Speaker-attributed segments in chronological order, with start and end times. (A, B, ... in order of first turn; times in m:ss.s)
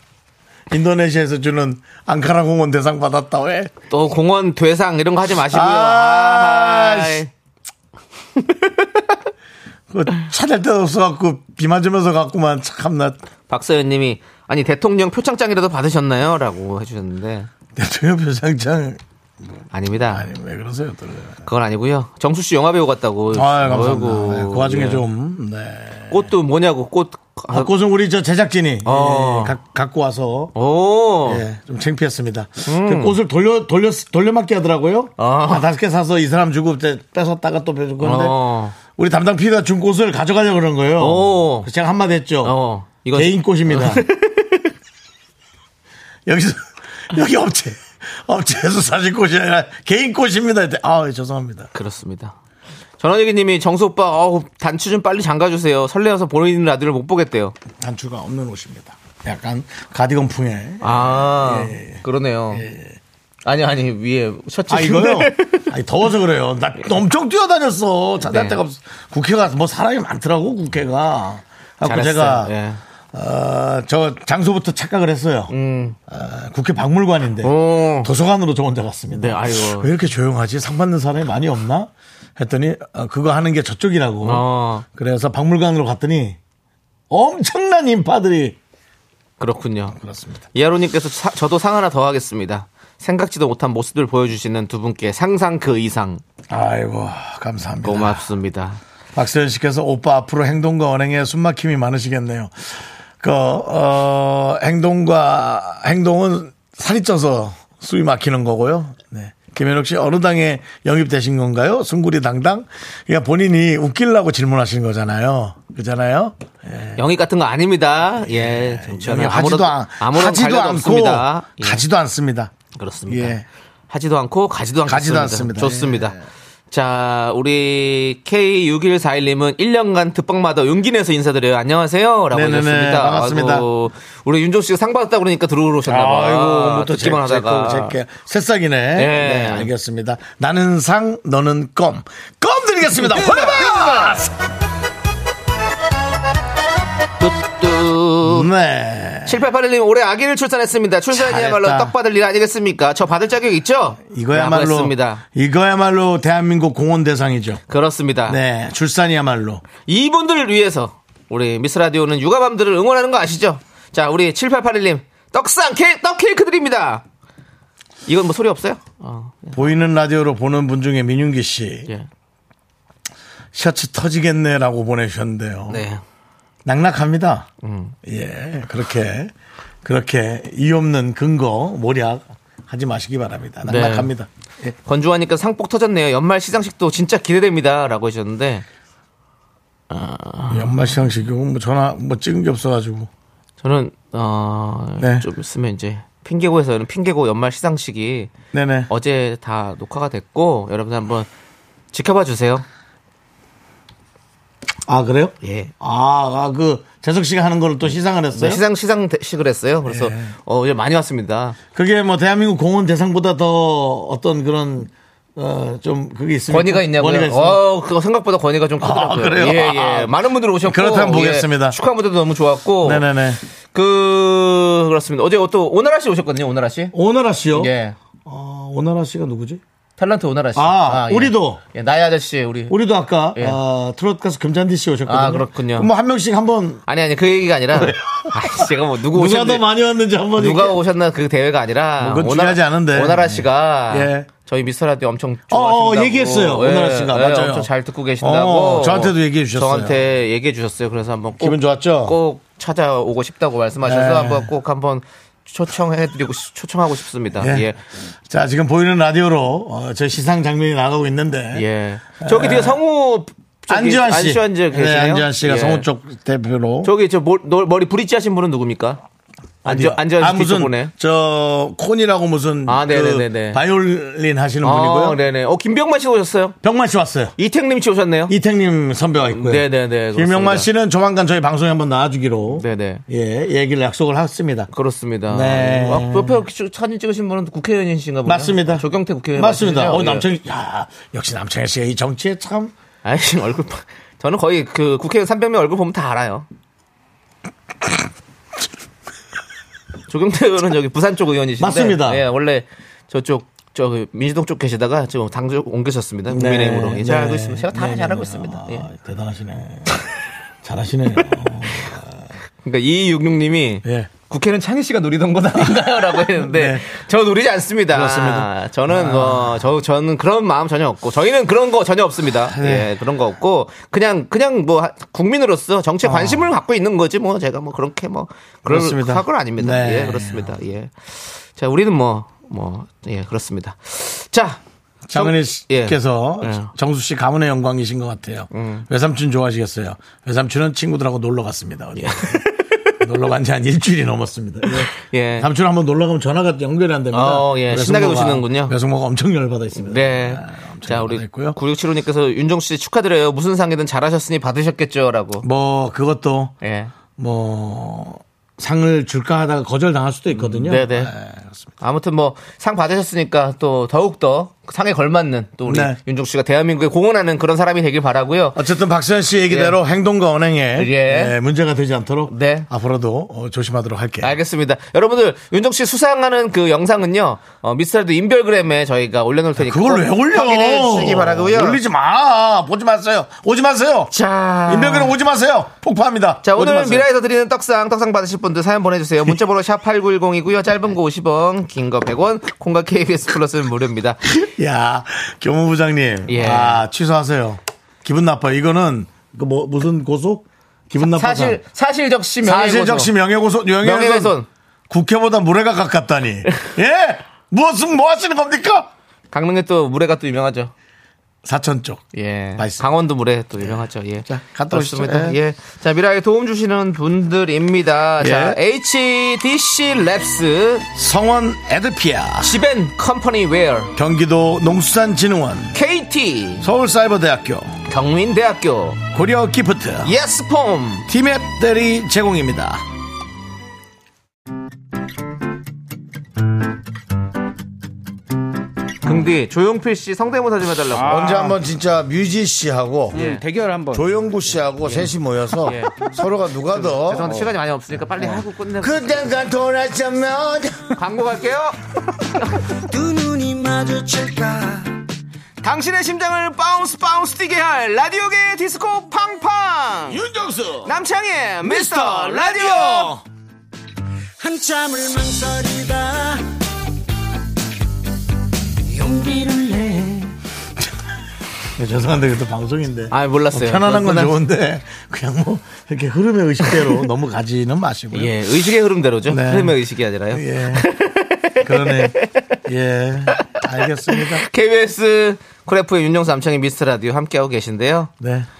0:00.7-0:03.7 A
0:03.9-0:07.3 B
0:05.4-0:07.2 A
0:08.4-0:09.0 B
0:09.9-0:13.2 A
0:13.5-0:17.5 B
0:17.8-0:19.0 A
0:19.7-0:20.3 B
0:20.1-0:21.4 A
0:21.4-0:25.0 B
0:23.3-0:26.3 A
0:26.1-0:27.7 B
0:27.5-0:30.5 A
0:28.8-0:29.6 B
0:30.6-0:31.4 B
0:31.2-0:38.4 A
0:32.6-0:33.2 B
0:35.2-0:35.7 B
0:38.0-0:38.8 B
0:39.0-0:42.6 A
0:41.0-0:41.7 B
0:42.4-0:44.7 B
0:43.1-0:44.0 A
0:46.3-0:51.7 A
0:51.7-0:52.4 B
0:53.0-0:57.6 B
0:57.8-1:03.0 A
1:00.8-1:02.7 B
1:03.4-1:05.7 B
1:04.7-1:12.5 A
1:08.2-1:08.6 B
1:11.8-1:12.8 B
1:13.1-1:15.5 A
1:15.5-1:16.0 B
1:16.1-1:26.4 A
1:17.4-1:18.1 B
1:19.1-1:19.9 B
1:24.2-1:24.9 B
1:27.1-1:28.6 A
1:29.4-1:30.0 B
1:29.9-1:30.4 A
1:30.5-1:36.2 B
1:36.5-1:38.2 A
1:37.8-1:38.8 B
1:39.2-1:57.0 A
1:57.0-2:01.8 B
1:58.2-2:02.5 A
2:02.8-2:03.4 B
2:03.1-2:03.4 A
2:03.9-2:06.2 B
2:04.9-2:06.2 A
2:06.7-2:18.0 B
2:12.3-2:13.7 A
2:15.9-2:24.3 A
2:19.0-2:19.7 B
2:23.0-2:24.2 B
2:27.2-2:28.5 B
2:28.2-2:29.4 A
2:29.3-2:35.2 B
2:31.1-2:31.9 A
2:34.1-2:37.6 A
2:37.7-2:38.4 B
2:38.3-2:39.6 A
2:39.8-2:47.0 B
2:48.1-2:49.8 B
2:49.6-2:51.9 A
2:53.5-2:55.9 A
2:55.7-2:56.0 B
2:56.6-2:57.5 A
2:57.6-2:58.0 B
2:58.0-2:59.3 A
2:59.8-3:04.8 A
3:03.6-3:04.1 B
3:04.8-3:08.6 B
3:09.9-3:10.8 B
3:10.5-3:13.1 A
3:13.6-3:18.3 B
3:15.0-3:15.3 A
3:18.5-3:18.9 A
3:18.9-3:21.3 B
3:21.9-3:22.6 B
3:24.9-3:28.6 A
3:25.4-3:25.7 B
3:28.3-3:31.6 B
3:29.9-3:30.3 A
3:31.8-3:37.6 A
3:36.5-3:43.1 B
3:38.8-3:41.8 A
3:42.8-3:43.4 A
3:43.7-3:46.9 B
3:46.9-3:47.7 A
3:47.5-3:48.0 B
3:48.2-3:49.6 A
3:50.0-3:52.8 B
3:50.6-3:51.6 A
3:52.7-3:56.8 A
3:53.3-3:53.6 B
3:55.1-3:55.9 B
3:56.9-3:59.7 B
3:57.7-4:00.8 A
4:00.4-4:17.8 B
4:02.0-4:04.3 A
4:05.5-4:10.0 A
4:11.4-4:12.2 A
4:13.8-4:14.5 A
4:17.4-4:17.7 A
4:18.3-4:21.6 A
4:21.5-4:25.9 B
4:22.2-4:22.8 A
4:23.7-4:26.9 A
4:26.8-4:29.0 B
4:29.6-4:35.2 A
4:29.6-4:30.9 B
4:32.7-4:33.6 B
4:34.6-4:36.6 B
4:36.6-4:37.4 A
4:37.4-4:38.3 B
4:38.3-4:44.7 A
4:39.3-4:40.7 B
4:42.5-4:43.0 B
4:44.7-4:50.3 B
4:45.3-4:46.4 A
4:48.2-4:52.7 A
4:53.0-4:56.5 B
5:00.1-5:08.9 B
5:01.6-5:02.2 A
5:06.3-5:10.0 A
5:10.6-5:12.3 A
5:11.2-5:11.9 B
5:12.6-5:34.6 B
5:13.8-5:14.1 A
5:15.6-5:16.8 A
5:17.9-5:19.7 A
5:22.5-5:22.9 A
5:26.0-5:26.5 A
5:28.7-5:30.6 A
5:35.1-5:42.4 A
5:35.1-5:36.7 B
5:38.5-5:38.9 B
5:42.0-5:43.0 B
5:43.0-5:51.6 A
5:44.7-5:45.5 B
5:47.1-5:48.7 B
5:49.8-5:55.4 B
5:55.4-5:56.5 A
5:56.6-5:56.9 B
5:57.2-6:01.7 A
6:00.3-6:01.1 B
6:01.8-6:08.6 B
6:05.7-6:06.0 A
6:08.6-6:14.4 A
6:09.5-6:09.8 B
6:10.8-6:11.4 B
6:12.3-6:12.7 B
6:14.2-6:21.8 B
6:19.6-6:24.1 A
6:24.1-6:25.2 B
6:24.7-6:27.1 A
6:26.4-6:34.2 B
6:34.3-6:41.6 A
6:36.3-6:36.8 B
6:41.0-6:43.1 B
6:42.4-6:44.4 A
6:43.8-6:44.5 B
6:44.9-6:48.9 A
6:49.3-6:50.7 B
6:51.4-6:52.0 A
6:52.1-7:00.9 B
6:52.6-6:52.9 A
6:53.6-6:55.4 A
6:58.2-6:58.6 A
7:01.0-7:02.5 A
7:02.4-7:03.9 B
7:04.0-7:05.8 A
7:05.7-7:06.6 B
7:06.6-7:07.8 A
7:07.9-7:09.0 B
7:09.1-7:10.1 A
7:10.0-7:11.1 B
7:11.1-7:12.8 A
7:19.0-7:21.5 B
7:21.0-7:23.3 A
7:23.1-7:23.5 B
7:23.9-7:27.5 A
7:24.8-7:29.5 B
7:28.2-7:31.0 A
7:31.0-7:31.8 B
7:32.4-7:32.6 B
7:32.9-7:34.8 C
7:35.6-7:40.2 B
7:40.1-7:41.0 A
7:40.8-7:43.1 B
7:41.6-7:43.2 A
7:44.4-7:46.4 C
7:48.9-7:50.1 C
7:51.8-7:58.4 A
7:53.1-7:54.4 B
7:56.7-7:57.0 B
7:58.1-8:02.6 B
7:59.3-7:59.8 A
8:00.3-8:00.9 A
8:01.6-8:04.4 A
8:03.4-8:08.1 B
8:08.2-8:08.5 A